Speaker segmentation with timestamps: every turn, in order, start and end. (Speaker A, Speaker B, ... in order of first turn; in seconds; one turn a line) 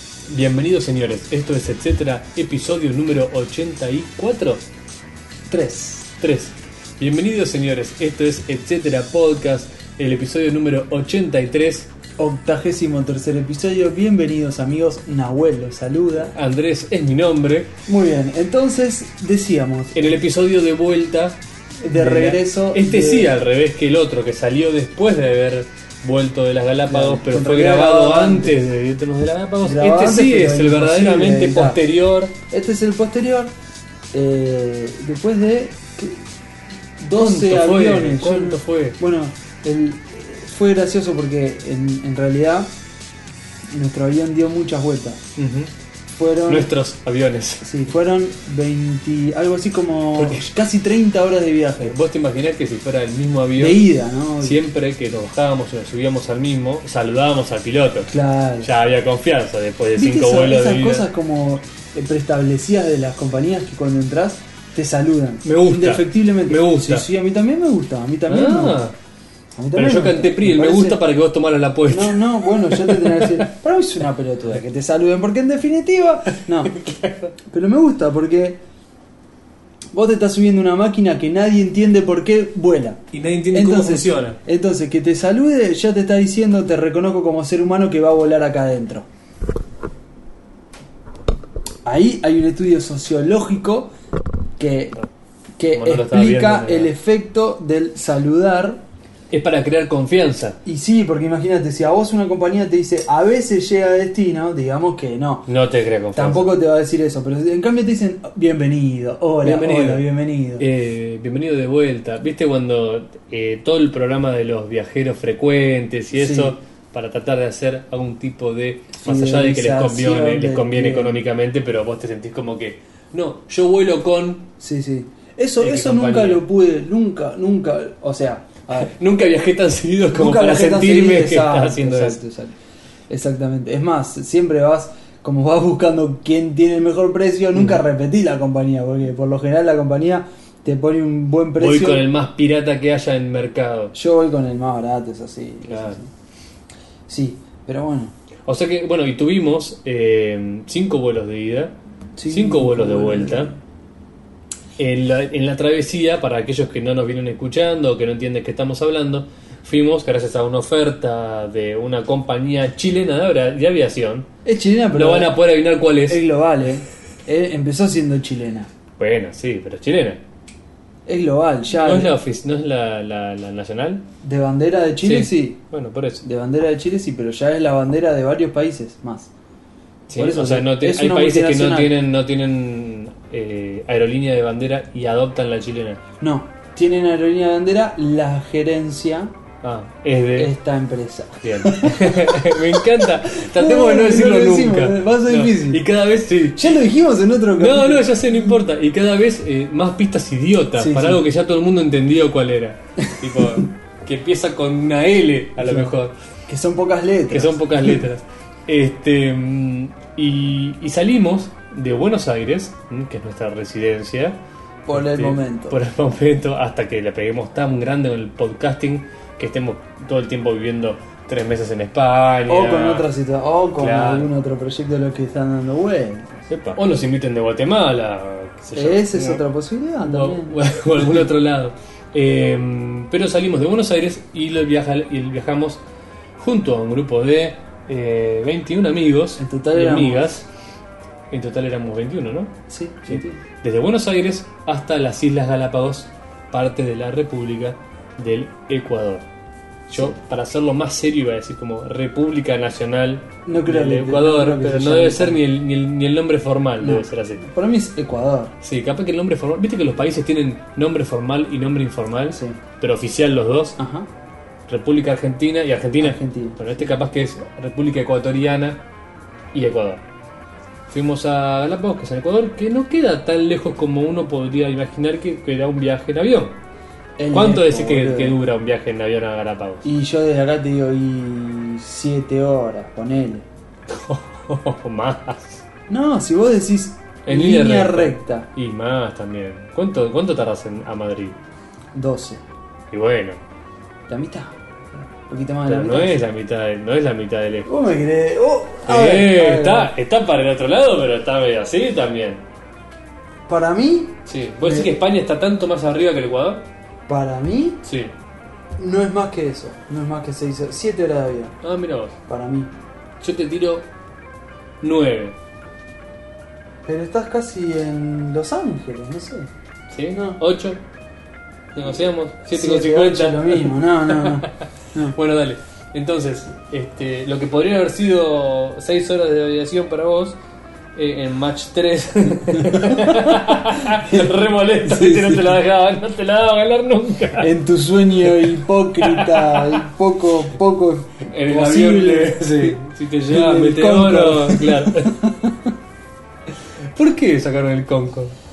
Speaker A: 0.3-4.6
Speaker B: 5.5-6.1
Speaker A: 6.2-11.9
Speaker B: 12.2-16.3
Speaker A: 16.3-17.7
Speaker B: 17.9-20.1
Speaker A: 19.9-32.3
Speaker B: 21.8-23.3
Speaker B: 26.9-28.6
Speaker B: 29.6-31.8
Speaker B: 32.5-33.5
Speaker B: 34.1-36.2
Speaker B: 37.0-42.7
Speaker A: 37.1-39.0
Speaker B: 43.7-45.2
Speaker A: 45.4-45.7
Speaker B: 46.2-46.7
Speaker A: 46.4-47.6
Speaker B: 47.6-51.9
Speaker A: 50.1-50.5
Speaker A: 51.8-53.9
Speaker B: 53.6-54.6
Speaker A: 54.4-61.0
Speaker B: 58.0-58.7
Speaker B: 60.0-68.8
Speaker A: 65.4-67.0
Speaker A: 68.3-69.0
Speaker B: 69.5-71.0
Speaker A: 69.8-73.4
Speaker B: 71.9-76.8
Speaker A: 76.6-77.3
Speaker B: 77.5-78.6
Speaker B: 79.9-89.0
Speaker A: 83.1-84.4
Speaker B: 91.8-93.9
Speaker B: 94.6-95.0
Speaker B: 95.6-98.8
Speaker A: 95.7-96.9
Speaker A: 99.3-100.6
Speaker B: 100.6-105.5
Speaker A: 105.5-106.5
Speaker B: 106.1-110.6
Speaker A: 109.4-124.5
Speaker B: 116.1-116.6
Speaker B: 119.0-121.2
Speaker B: 124.6-128.9
Speaker A: 125.6-126.4
Speaker A: 128.7-132.2
Speaker B: 130.1-132.5
Speaker B: 133.1-142.1
Speaker A: 137.5-137.8
Speaker A: 141.6-143.9
Speaker B: 143.9-146.1
Speaker A: 145.7-146.0
Speaker B: 147.1-148.1
Speaker A: 148.4-151.8
Speaker B: 152.2-153.6
Speaker A: 152.3-153.5
Speaker A: 154.8-164.3
Speaker B: 164.4-165.4
Speaker A: 164.9-166.2
Speaker B: 166.0-168.7
Speaker A: 169.0-170.2
Speaker B: 171.1-172.2
Speaker A: 171.7-174.1
Speaker B: 174.2-175.6
Speaker A: 175.0-176.2
Speaker B: 176.2-179.3
Speaker A: 180.1-186.0
Speaker B: 180.1-181.9
Speaker B: 186.2-189.3
Speaker A: 189.6-190.5
Speaker B: 190.3-195.8
Speaker A: 191.4-196.8
Speaker B: 196.6-198.6
Speaker A: 197.5-206.1
Speaker B: 200.8-201.2
Speaker B: 203.0-203.6
Speaker B: 205.6-205.9
Speaker B: 206.5-208.0
Speaker A: 207.3-214.4
Speaker B: 214.8-215.8
Speaker A: 214.9-223.1
Speaker B: 222.5-226.5
Speaker A: 223.8-224.3
Speaker A: 226.5-229.4
Speaker B: 228.7-231.2
Speaker A: 230.0-235.8
Speaker A: 236.3-240.5
Speaker B: 239.4-240.4
Speaker A: 241.3-242.5
Speaker B: 242.7-243.4
Speaker A: 243.1-249.2
Speaker B: 249.9-250.2
Speaker A: 249.9-257.4
Speaker B: 253.4-255.4
Speaker B: 256.8-258.5
Speaker A: 258.6-263.8
Speaker B: 262.3-262.6
Speaker B: 263.8-264.1
Speaker A: 264.7-268.8
Speaker B: 266.0-266.6
Speaker A: 269.5-270.0
Speaker A: 270.9-276.6
Speaker B: 277.2-278.4
Speaker A: 277.3-279.8
Speaker B: 279.8-283.4
Speaker A: 283.9-285.6
Speaker B: 285.9-288.5
Speaker A: 287.2-291.4
Speaker B: 291.9-292.4
Speaker A: 292.9-293.4
Speaker B: 294.1-296.2
Speaker A: 295.6-297.7
Speaker B: 297.6-299.9
Speaker A: 298.9-302.4
Speaker B: 303.5-304.9
Speaker A: 304.2-306.6
Speaker B: 307.1-307.8
Speaker A: 307.8-308.1
Speaker B: 308.8-311.5
Speaker A: 311.6-312.1
Speaker B: 312.3-312.7
Speaker A: 313.2-313.9
Speaker A: 314.8-315.4
Speaker B: 316.8-319.5
Speaker A: 319.9-320.8
Speaker B: 320.1-320.4
Speaker A: 321.7-324.5
Speaker B: 322.5-325.1
Speaker A: 325.1-330.4
Speaker A: 330.9-337.5
Speaker B: 332.6-335.6
Speaker B: 337.4-342.8
Speaker A: 338.4-339.8
Speaker A: 341.3-345.1
Speaker B: 343.3-345.7
Speaker A: 346.8-348.3